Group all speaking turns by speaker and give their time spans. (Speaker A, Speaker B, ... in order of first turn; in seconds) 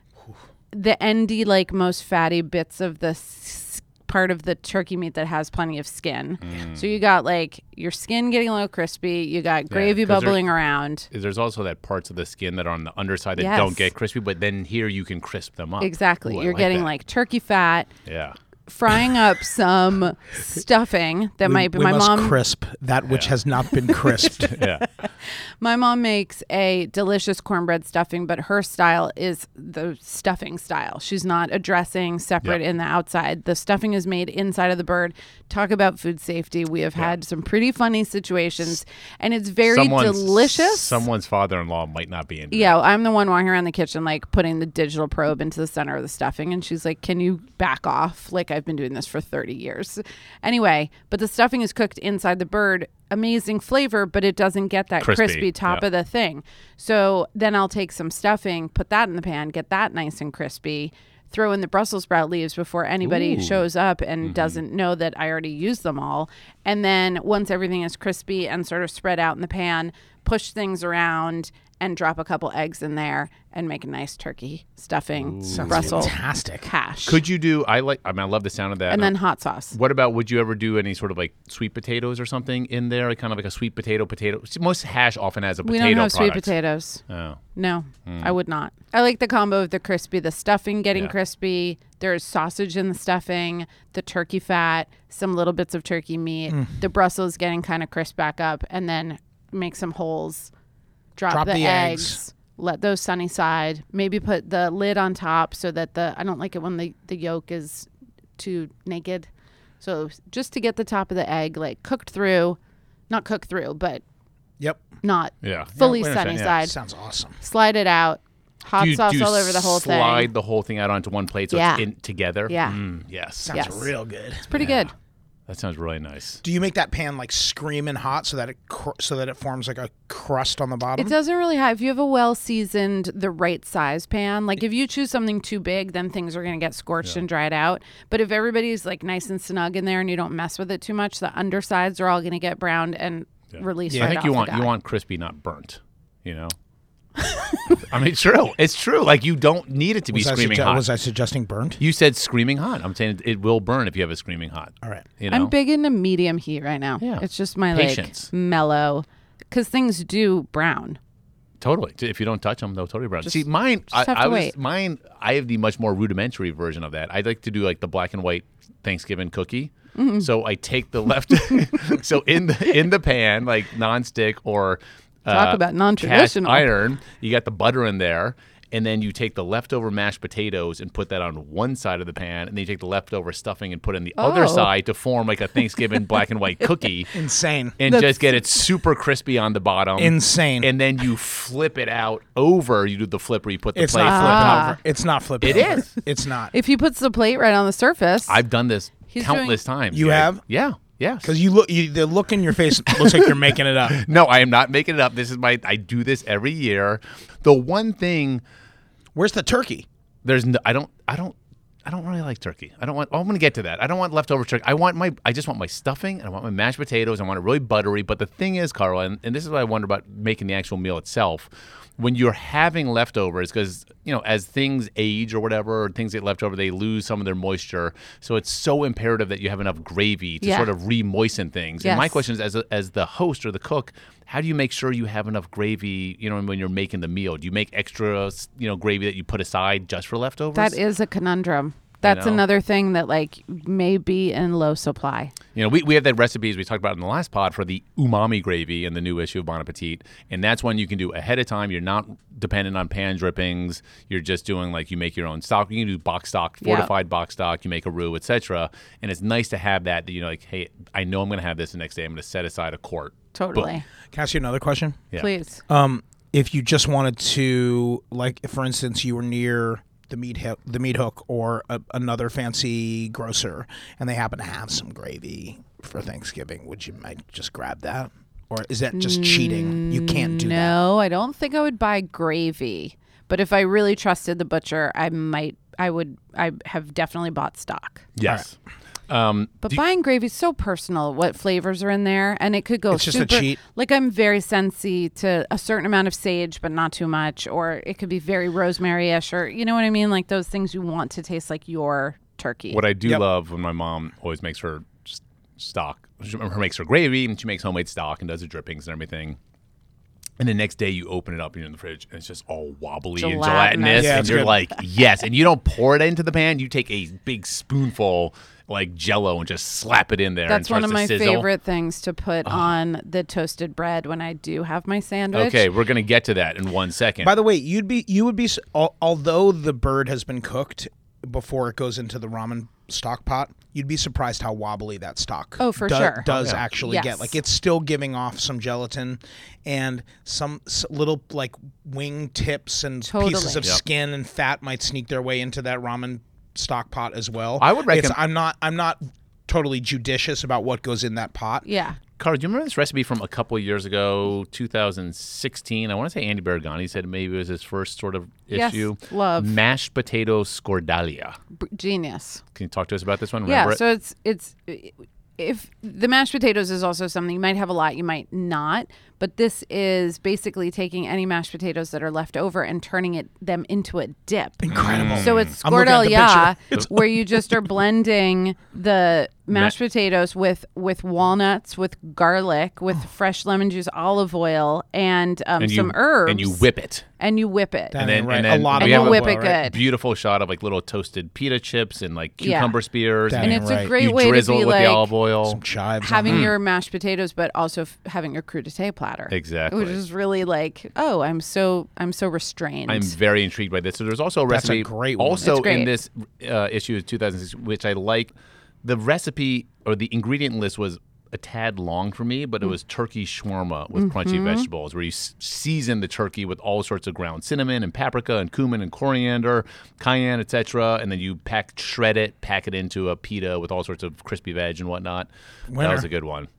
Speaker A: 0.7-11.1, 13.3-13.9, 15.8-17.9, 18.7-22.4, 24.4-24.7, 25.2-41.0, 42.5-77.2, 78.9-79.7, 85.6-87.0, 87.5-100.5, 101.2-109.3, 109.8-112.6, 113.1-114.0, 115.0-116.7, 117.4-120.3, 121.5-121.8, 122.5-122.8, 123.5-123.9, 124.5-124.9, 131.0-144.7, 155.3-161.0, 163.2-164.5, 169.9-170.3, 175.3-176.7, 184.2-184.7, 187.8-188.3, 194.0-194.8, 195.5-195.9, 196.5-198.4, 199.1-199.6, 230.4-230.7, 231.8-232.2, 240.5-245.3, 256.6-256.9, 263.3-263.8, 265.1-265.6, 278.9-288.1, 289.6-302.8, 313.2-314.5, 320.5-325.6, 335.6-336.2, 336.8-337.3, 343.1-343.7, 351.6-352.0, 358.5-359.5, 361.6-362.4, 363.4-386.6, 387.2-388.0, 388.8-389.8, 392.4-392.8, 393.4-395.1, 396.0-403.1, 405.4-405.9, 413.9-414.7
Speaker B: 6.4-6.8, 9.7-10.5, 11.1-16.9, 18.1-18.4, 24.3-24.9, 39.6-42.8, 55.0-55.8, 63.0-63.6, 64.2-64.6, 75.2-76.1, 77.0-79.2, 79.7-86.5, 87.1-87.4, 88.0-88.3, 115.4-116.5, 118.8-123.5, 124.5-124.9, 125.5-126.4, 143.5-146.5, 147.7-150.8, 151.8-155.5, 157.0-158.3, 161.6-187.1, 187.8-194.7, 195.4-195.9, 198.3-201.3, 202.9-208.4, 210.2-240.8, 242.0-242.4, 245.5-263.7, 288.2-288.5, 289.1-289.8, 302.7-309.4, 310.4-321.5, 322.4-322.7, 325.3-327.3, 336.3-336.6, 347.6-348.2, 352.2-361.4, 362.5-363.8, 374.7-375.5, 385.6-387.1, 388.0-395.6, 396.3-396.5, 399.3-400.0, 402.9-408.3, 408.8-426.5
Speaker C: 21.4-24.5, 75.5-76.7, 101.3-102.2, 114.6-114.9, 116.3-117.4, 123.4-124.5, 126.4-131.1, 150.1-151.8, 187.1-187.8, 190.0-190.7, 193.7-196.5, 199.9-200.4, 201.2-204.0, 209.1-209.9, 264.1-265.1, 265.7-280.8, 292.9-293.6, 313.9-314.6, 327.2-351.6, 374.6-376.9, 387.9-389.6, 393.3-393.9, 395.4-396.5, 404.5-405.5, 425.7-426.1